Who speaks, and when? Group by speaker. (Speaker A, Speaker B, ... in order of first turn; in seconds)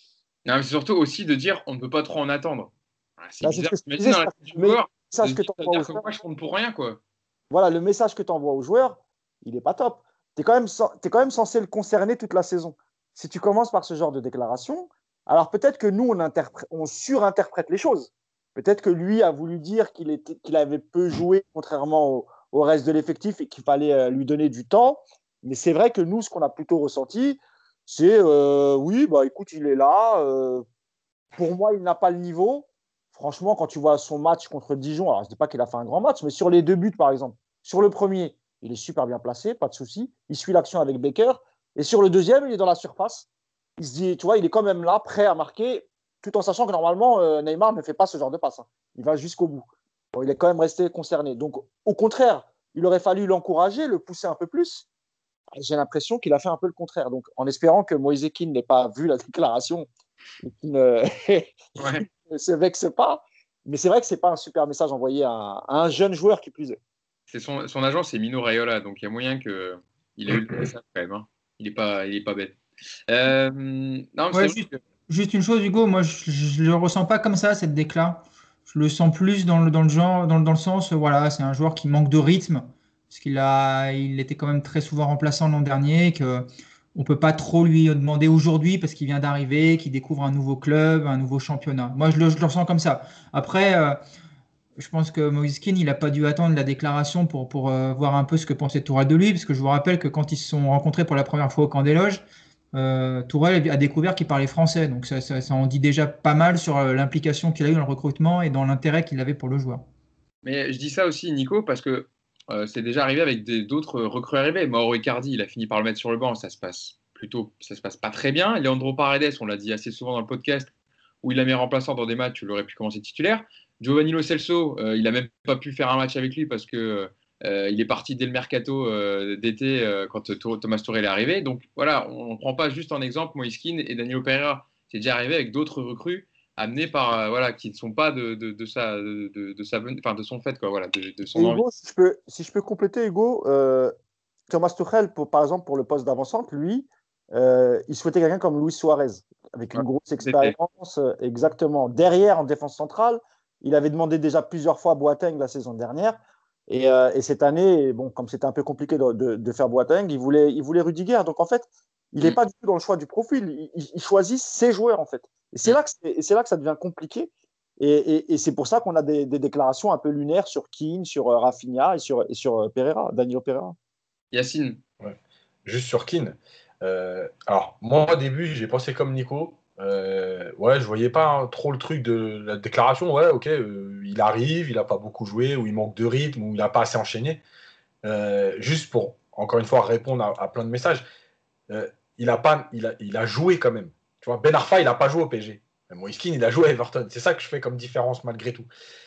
Speaker A: 0.5-7.0, 61.8-62.0, 67.3-74.8, 110.4-120.7, 121.2-141.6, 149.7-150.6, 174.3-174.8
Speaker B: 3.4-6.1, 7.5-30.6, 31.4-54.9, 55.5-59.9, 60.4-66.8, 141.3-143.9, 144.5-173.7
Speaker C: 74.3-94.0, 94.8-102.2, 102.7-109.8
Speaker D: 175.0-187.4, 188.0-191.0, 191.7-198.7